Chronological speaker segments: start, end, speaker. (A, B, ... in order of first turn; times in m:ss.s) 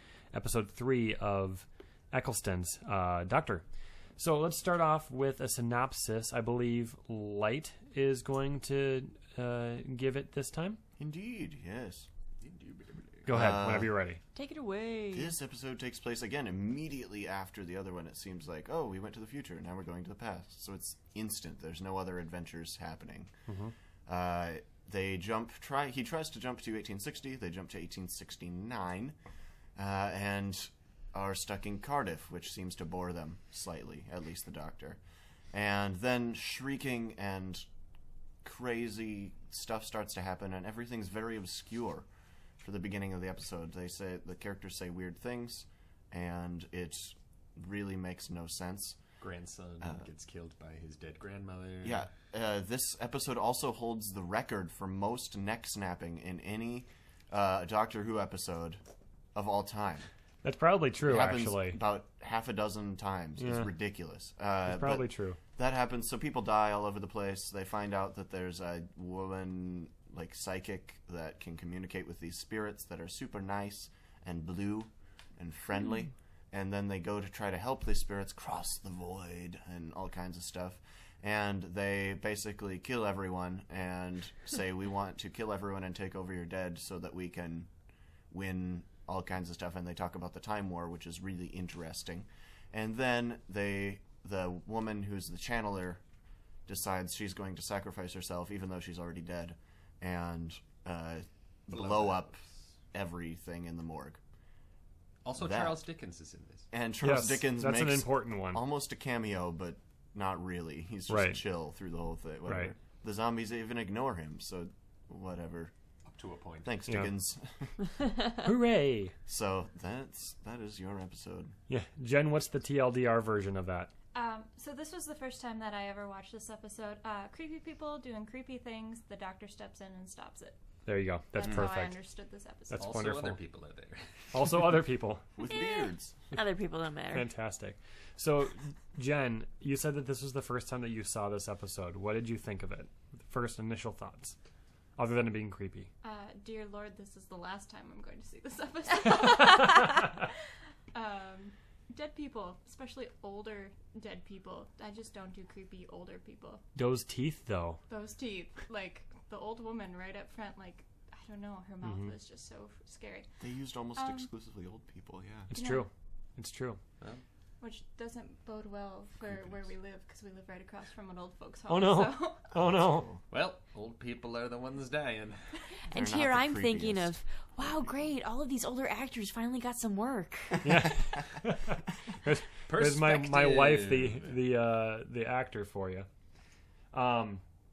0:00.3-0:03.6 A
0:04.2-0:10.8 A
0:11.0-0:12.1 B
0:12.4-0:13.3 C
0:13.2-0:14.2 A
0:13.2-0:14.0 B
0:14.3-0:15.3 D
0:15.1-0:23.3 B
0:23.5-0:23.7 A
0:24.0-0:29.2 B
0:29.8-0:35.0 B
0:35.5-0:37.6 B
0:38.4-0:42.1 B
0:42.6-0:49.0 B
0:49.2-0:52.1 C
0:49.8-0:50.1 B
0:51.8-0:58.8 B
0:59.3-1:00.1 B
1:00.4-1:01.8 A
1:01.0-1:27.7 B
1:03.4-1:03.7 A
1:04.6-1:05.4 A
1:28.3-1:36.0 B
1:36.7-1:42.4 B
1:41.7-1:42.5 C
1:42.9-1:44.2 B
1:45.2-1:46.7 C
1:45.4-1:45.8 B
1:46.7-1:55.7 B
1:47.0-1:48.6 A
1:51.1-1:51.4 A
1:52.4-1:52.7 A
1:56.0-1:56.8 C
1:56.6-1:57.7 B
1:56.9-1:57.1 A
1:58.3-1:59.1 A
1:59.3-2:01.6 B
2:01.7-2:03.9 A
2:04.1-2:10.6 E
2:10.8-2:12.0 A
2:11.3-2:13.0 E
2:12.7-2:13.4 A
2:12.8-2:14.7 C
2:14.3-2:15.2 A
2:15.4-2:16.1 B
2:15.5-2:17.3 D
2:17.1-2:24.4 A
2:25.0-2:25.9 A
2:26.0-2:30.4 E
2:29.4-2:30.0 A
2:30.9-2:36.6 E
2:36.7-2:37.8 A
2:37.9-2:43.3 E
2:41.8-2:42.1 A
2:43.4-2:45.5 B
2:44.0-2:44.3 E
2:45.5-2:46.8 A
2:45.5-2:45.8 E
2:47.6-2:52.5 E
2:51.7-2:53.1 A
2:52.6-2:53.2 B
2:53.3-2:55.6 C
2:55.9-2:57.9 B
2:55.9-3:00.9 D
3:00.6-3:06.1 A
3:02.7-3:04.4 C
3:06.9-3:07.4 A